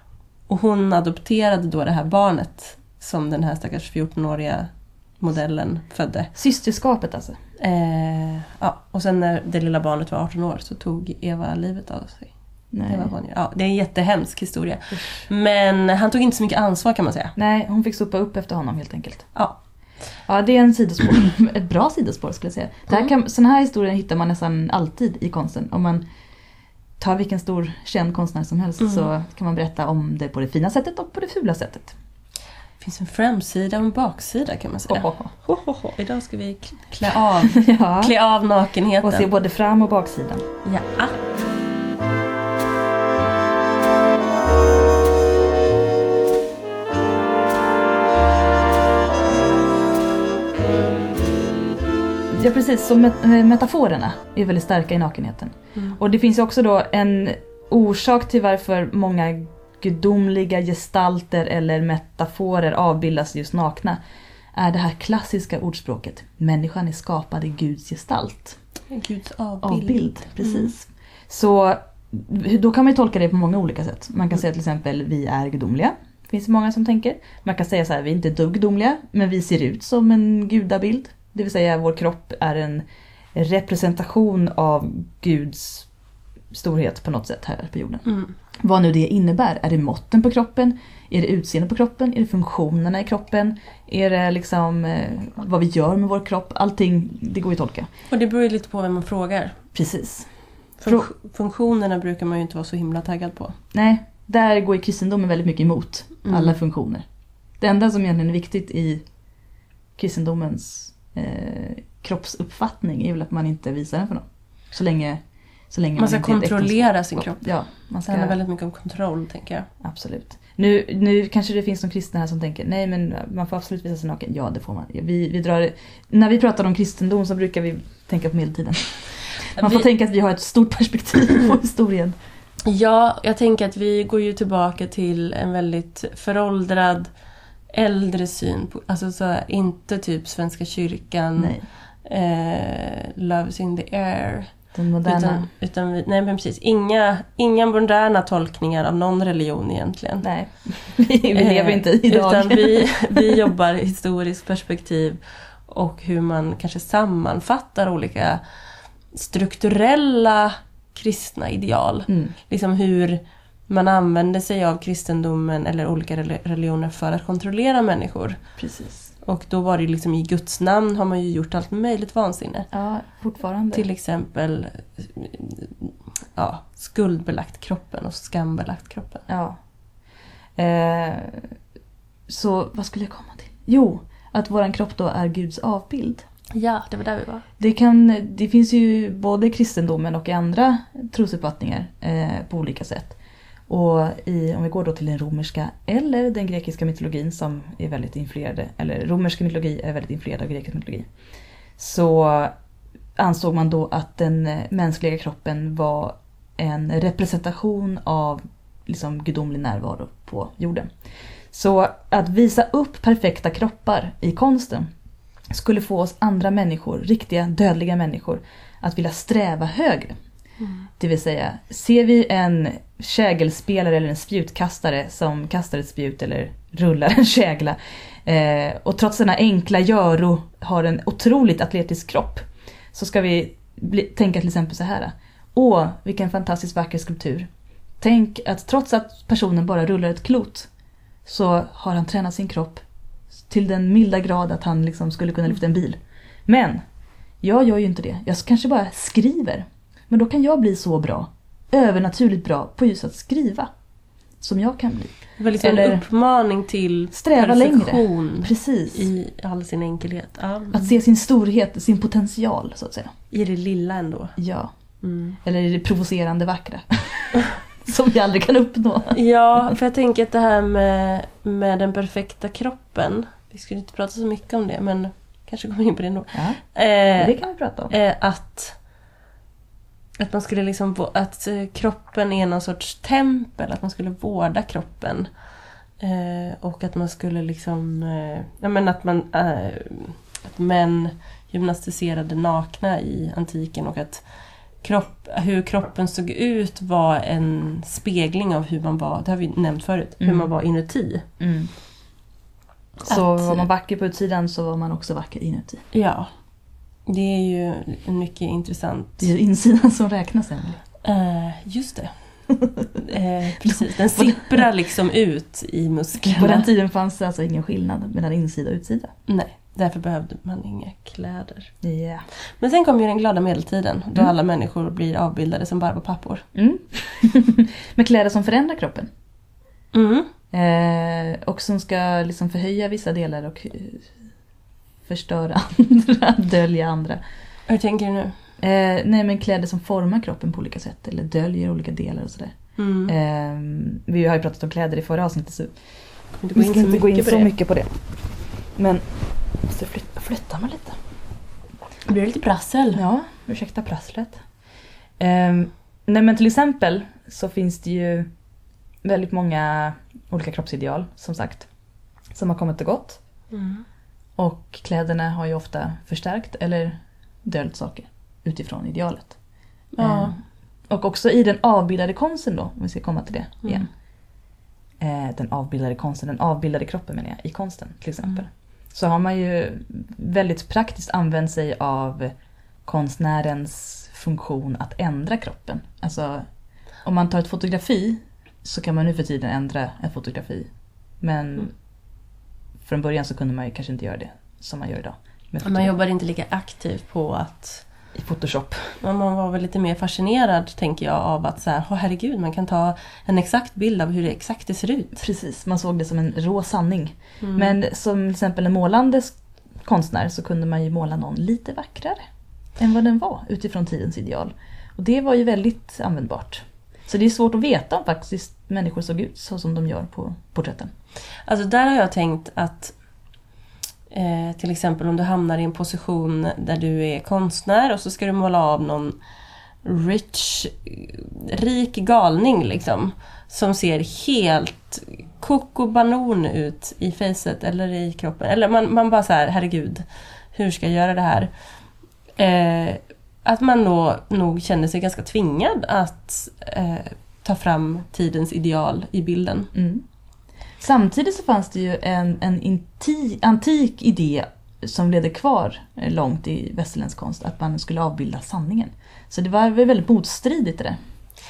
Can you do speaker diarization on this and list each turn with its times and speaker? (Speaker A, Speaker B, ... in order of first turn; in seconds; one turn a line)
Speaker A: 0.5-6.3
Speaker B: 6.3-7.4
Speaker A: 7.6-17.3
Speaker B: 12.7-13.1
Speaker B: 17.4-19.3
Speaker B: 20.2-26.0
Speaker B: 27.0-31.9
Speaker A: 28.8-29.1
Speaker A: 32.8-39.3
Speaker B: 34.9-35.3
Speaker B: 37.5-38.1
Speaker B: 39.0-40.4
Speaker A: 40.6-41.2
Speaker B: 52.3-64.0
Speaker B: 64.5-68.6
Speaker A: 68.9-70.7
Speaker B: 69.6-85.9
Speaker B: 86.5-88.0
Speaker A: 88.0-88.3
Speaker B: 88.6-97.9
Speaker A: 98.1-99.6
Speaker B: 99.7-100.3
Speaker A: 100.8-103.5
Speaker B: 103.7-107.0
Speaker A: 106.2-106.5
Speaker B: 107.6-109.0
Speaker B: 110.0-118.3
Speaker A: 116.0-119.7
Speaker B: 119.8-132.2
Speaker A: 129.5-129.8
Speaker A: 132.7-137.1
Speaker A: 137.7-150.3
Speaker B: 141.4-141.7
Speaker B: 144.7-145.5
Speaker B: 150.2-153.2
Speaker A: 151.3-158.4
Speaker A: 159.1-168.5
Speaker B: 162.1-162.3
Speaker B: 168.6-169.1
Speaker A: 169.2-172.7
Speaker B: 172.7-173.8
Speaker A: 173.7-179.2
Speaker B: 179.3-179.6
Speaker B: 180.6-181.5
Speaker B: 182.3-186.2
Speaker A: 186.5-187.4
Speaker B: 187.6-193.2
Speaker B: 193.7-201.1
Speaker B: 201.8-202.5
Speaker B: 203.2-210.9
Speaker B: 211.5-214.9
Speaker B: 215.5-220.1
Speaker A: 220.6-220.9
Speaker B: 221.0-237.5
Speaker B: 238.0-240.7
Speaker B: 241.2-242.8
Speaker B: 243.4-246.8
Speaker B: 247.4-253.7
Speaker B: 254.4-256.0
Speaker A: 255.4-260.9
Speaker B: 257.1-259.1
Speaker B: 260.7-263.1
Speaker A: 263.3-264.4
Speaker B: 264.4-264.7
Speaker A: 265.0-265.4
Speaker B: 265.4-269.7
Speaker A: 269.1-278.8
Speaker B: 276.3-277.9
Speaker A: 280.2-285.4
Speaker A: 286.0-301.2
Speaker B: 300.2-300.5
Speaker B: 301.4-301.7
Speaker A: 303.0-303.6
Speaker B: 303.1-305.9
Speaker A: 305.9-306.3
Speaker A: 307.1-309.3
Speaker B: 309.2-310.8
Speaker A: 311.0-312.4
Speaker A: 313.0-316.7
Speaker B: 313.6-314.6
Speaker B: 316.4-319.1
Speaker A: 319.3-321.7
Speaker B: 321.8-322.2
Speaker A: 322.3-326.4
Speaker B: 326.5-329.1
Speaker A: 329.9-330.3
Speaker B: 330.5-334.1
Speaker B: 335.0-337.2
Speaker A: 337.7-338.3
Speaker B: 338.6-345.8
Speaker A: 342.8-343.1
Speaker A: 346.4-347.5
Speaker B: 346.6-348.0
Speaker B: 348.7-351.0
Speaker A: 352.1-353.0
Speaker B: 352.9-354.4
Speaker B: 355.2-358.3
Speaker B: 359.0-361.7
Speaker B: 362.3-363.2
Speaker A: 363.5-363.8
Speaker B: 364.4-369.4
Speaker A: 369.9-370.4
Speaker B: 370.0-373.9
Speaker B: 375.0-386.5
Speaker B: 387.0-391.8
Speaker B: 392.8-395.9
Speaker A: 395.6-397.9
Speaker B: 398.1-399.0
Speaker A: 399.0-405.2
Speaker B: 405.2-412.2
Speaker A: 407.4-407.8
Speaker B: 412.8-420.9
Speaker A: 421.4-423.0
Speaker A: 424.1-429.2
Speaker A: 429.8-441.5
Speaker A: 442.4-449.7
Speaker B: 449.7-450.0
Speaker B: 450.8-461.0